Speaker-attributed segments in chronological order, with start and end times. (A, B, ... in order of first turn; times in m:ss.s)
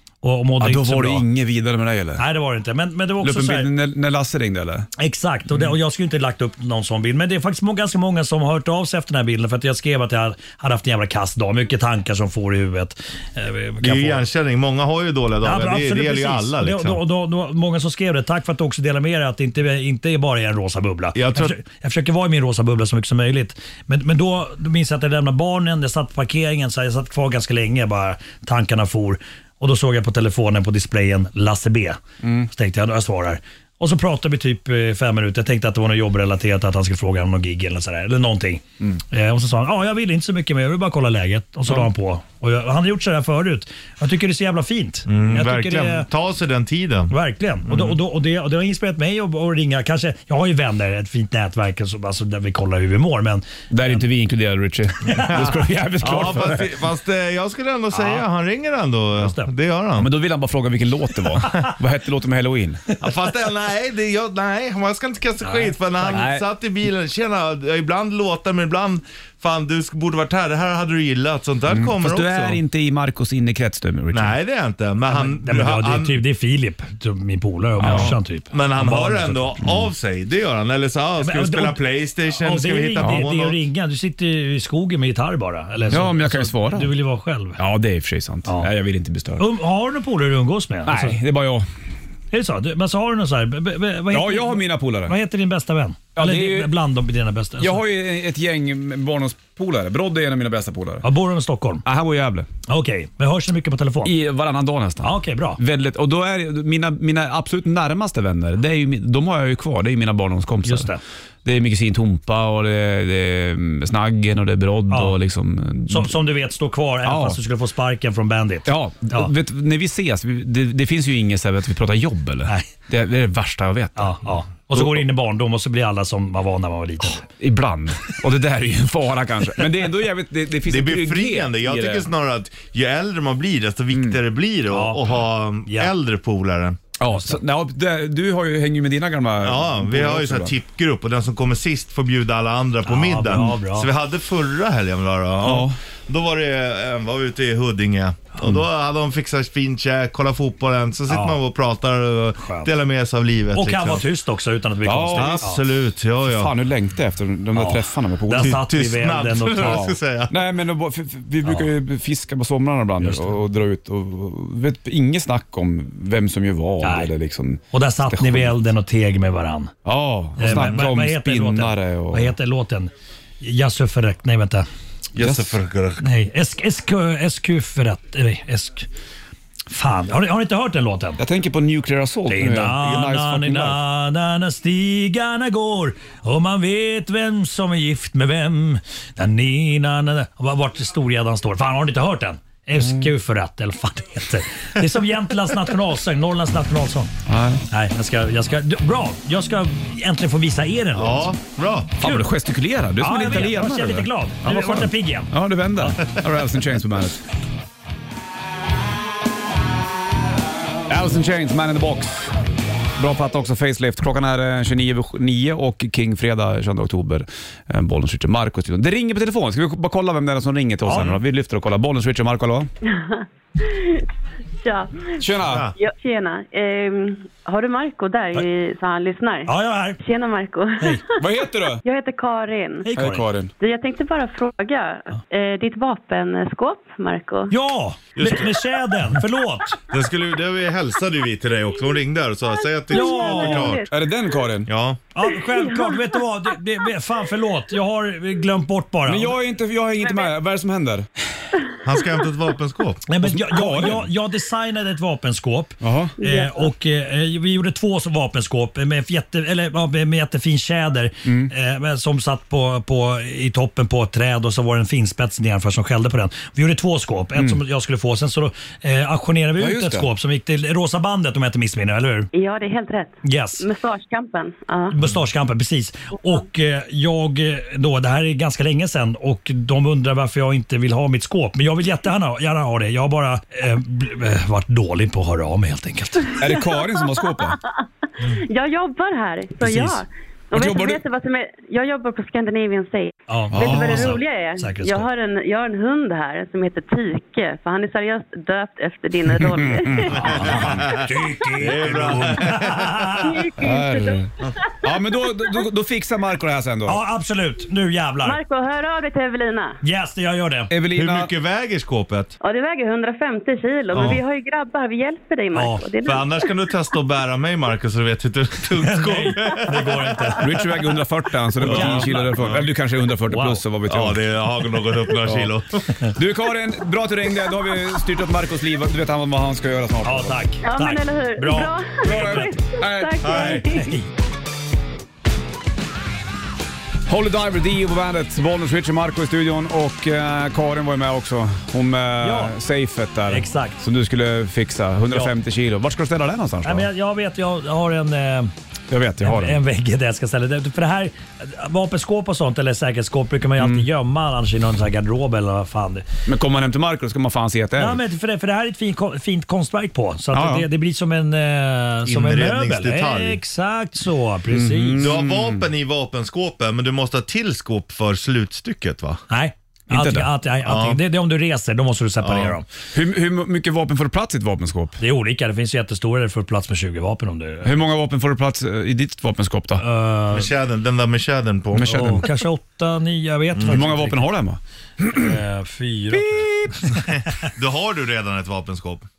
0:00.2-0:01.2 A
0:00.6-0:02.2 B
0:02.2-0:03.7 A
0:03.2-0:04.9 B
0:05.0-0:14.2 A
0:13.8-0:17.0 C
0:15.4-0:46.1 A
0:21.2-0:21.5 C
0:32.2-0:32.5 B
0:45.1-0:47.1 C
0:47.1-0:54.0 A
0:53.7-0:56.7 B
0:55.1-0:55.6 A
0:56.0-1:00.1 C
0:59.2-0:59.5 A
1:00.0-1:02.8 B
1:03.0-1:12.6 C
1:05.4-1:05.7 A
1:06.0-1:06.4 B
1:11.7-1:14.4 B
1:14.1-1:16.2 C
1:15.1-1:19.6 A
1:17.8-1:18.1 B
1:17.8-1:23.6 C
1:21.2-1:21.8 A
1:22.3-1:27.6 A
1:23.0-1:23.3 B
1:25.9-1:26.9 B
1:27.6-1:29.4 B
1:28.4-1:28.7 A
1:29.4-1:31.2 A
1:30.9-1:31.7 B
1:32.3-1:37.8 A
1:34.1-1:35.2 B
1:36.2-1:36.7 B
1:37.6-1:41.1 B
1:41.0-1:41.8 A
1:41.8-1:42.5 B
1:42.7-1:44.1 A
1:44.0-1:50.9 B
1:45.0-1:45.6 A
1:50.6-1:51.0 A
1:51.4-1:56.1 B
1:54.9-1:55.2 A
1:55.9-1:59.3 A
1:57.0-1:57.4 B
1:58.7-2:04.2 B
2:04.0-2:07.3 A
2:04.7-2:05.0 B
2:07.4-2:12.1 B
2:10.7-2:16.8 C
2:13.9-2:14.2 B
2:14.7-2:15.9 A
2:17.0-2:20.5 B
2:17.1-2:17.4 A
2:19.4-2:34.0 C
2:22.8-2:23.9 A
2:25.4-2:25.8 B
2:31.1-2:31.4 A
2:32.4-2:32.7 A
2:33.5-2:35.6 A
2:34.8-2:35.5 B
2:35.2-2:36.5 C
2:36.2-2:38.6 B
2:37.5-2:39.9 A
2:38.4-2:40.3 C
2:39.6-2:48.6 B
2:43.0-2:43.3 A
2:46.8-2:47.1 A
2:47.7-2:49.7 A
2:49.8-2:52.3 B
2:50.4-2:54.7 A
2:55.2-2:56.0 C
2:55.2-2:55.6 B
2:56.0-2:58.9 A
2:59.7-3:01.2 A
3:01.2-3:03.8 B
3:02.3-3:17.1 A
3:12.8-3:13.1 B
3:17.3-3:17.6 B
3:17.7-3:21.3 A
3:21.0-3:22.0 C
3:22.0-3:27.2 B
3:22.0-3:22.3 A
3:23.0-3:26.0 A
3:30.9-3:32.3 B
3:33.0-3:42.7 B
3:40.8-3:41.2 A
3:42.8-3:44.0 D
3:44.6-3:45.2 D
3:45.2-3:45.7 B
3:45.4-3:45.7 C
3:45.7-3:52.9 D
3:49.5-3:50.0 A
3:51.2-3:51.8 B
3:52.8-3:53.3 A
3:53.0-3:53.5 B
3:53.5-3:57.6 D
3:57.5-3:59.8 A
3:58.2-3:58.5 C
3:59.9-4:03.8 C
4:02.9-4:03.9 D
4:02.9-4:03.7 A
4:03.9-4:04.7 B
4:04.7-4:05.1 C
4:05.2-4:09.3 A
4:05.2-4:07.5 D
4:09.1-4:11.1 B
4:10.0-4:10.3 D
4:11.8-4:13.1 C
4:13.1-4:32.3 A
4:13.2-4:14.1 B
4:15.8-4:16.1 B
4:16.2-4:16.7 D
4:21.2-4:21.5 B
4:29.6-4:30.1 B
4:32.3-4:35.0 D
4:33.2-4:33.6 A
4:34.9-4:46.4 A
4:46.3-4:47.7 D
4:46.4-4:47.6 B
4:48.3-5:01.5 D
4:49.6-4:50.0 A
4:50.5-4:51.0 B
4:53.3-4:55.1 A
4:53.6-4:54.0 B
4:59.4-5:00.8 B
5:00.1-5:03.4 A
5:01.6-5:03.1 C
5:03.2-5:05.6 D
5:03.6-5:07.0 B
5:06.9-5:08.4 A
5:08.2-5:09.8 D
5:09.8-5:10.7 A
5:10.7-5:11.3 B
5:11.0-5:12.4 C
5:12.4-5:16.5 D
5:13.9-5:14.2 C
5:15.5-5:15.9 A
5:16.0-5:20.5 C
5:18.8-5:20.5 A
5:20.4-5:24.2 B
5:21.6-5:22.5 A
5:21.6-5:22.6 C
5:23.3-5:23.6 A
5:23.9-5:25.8 C
5:25.2-5:25.5 B
5:26.1-5:30.4 B
5:30.0-5:32.5 A
5:30.6-5:33.9 D
5:32.0-5:33.6 B
5:33.2-5:33.7 C
5:33.4-5:34.1 A
5:37.1-5:46.9 B
5:42.2-5:42.6 A
5:43.3-5:43.8 A
5:46.6-5:48.5 A
5:48.9-5:49.6 B
5:49.2-5:56.1 A
5:53.6-5:53.9 B
5:56.3-5:58.0 B
5:57.8-6:05.1 A
6:00.3-6:00.7 B
6:02.1-6:03.4 C
6:04.5-6:05.6 B
6:05.0-6:09.2 C
6:09.3-6:12.6 A
6:09.9-6:10.3 B
6:10.6-6:11.0 C
6:12.2-6:12.5 C
6:12.9-6:15.0 B
6:15.0-6:17.8 A
6:17.6-6:19.8 B
6:19.8-6:20.5 A
6:20.3-6:22.2 C
6:21.7-6:22.3 B
6:21.8-6:24.2 A
6:23.6-6:25.3 B
6:25.1-6:27.1 A
6:26.1-6:27.0 B
6:27.1-6:29.1 C